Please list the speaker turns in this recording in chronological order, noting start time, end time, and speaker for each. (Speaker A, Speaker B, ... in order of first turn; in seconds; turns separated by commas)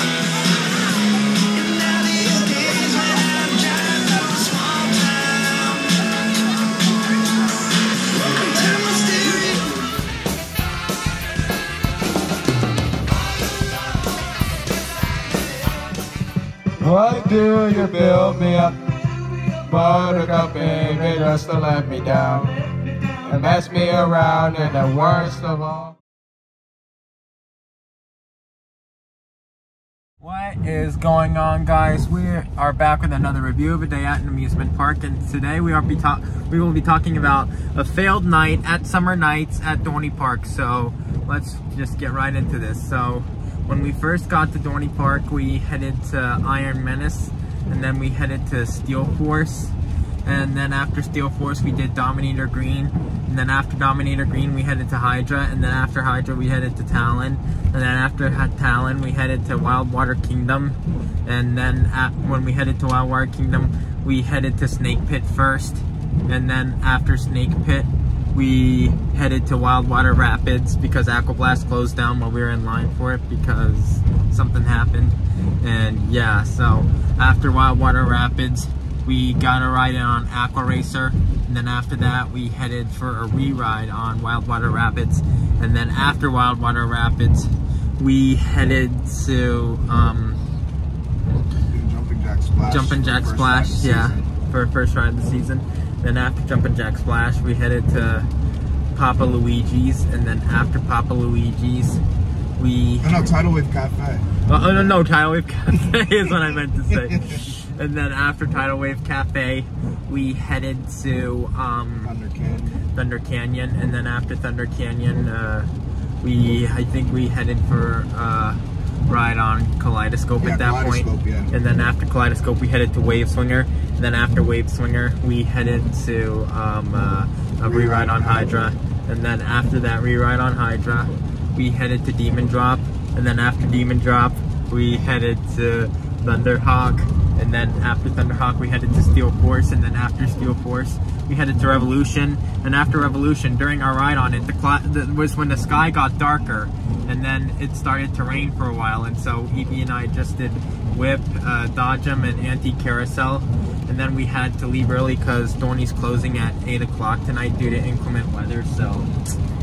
Speaker A: 1.5-6.0, Speaker A: 8.2-9.8, Speaker A: 16.8-18.8, Speaker A: 19.4-25.9, Speaker B: 30.2-90.4, Speaker C: 91.7-94.3, Speaker B: 92.7-98.3, Speaker B: 98.9-102.0, Speaker B: 102.6-103.2, Speaker C: 103.0-104.4, Speaker B: 104.5-112.1, Speaker C: 107.0-107.3, Speaker C: 112.0-112.8, Speaker B: 112.9-115.7, Speaker B: 116.2-159.1, Speaker C: 120.4-121.5, Speaker C: 127.6-128.6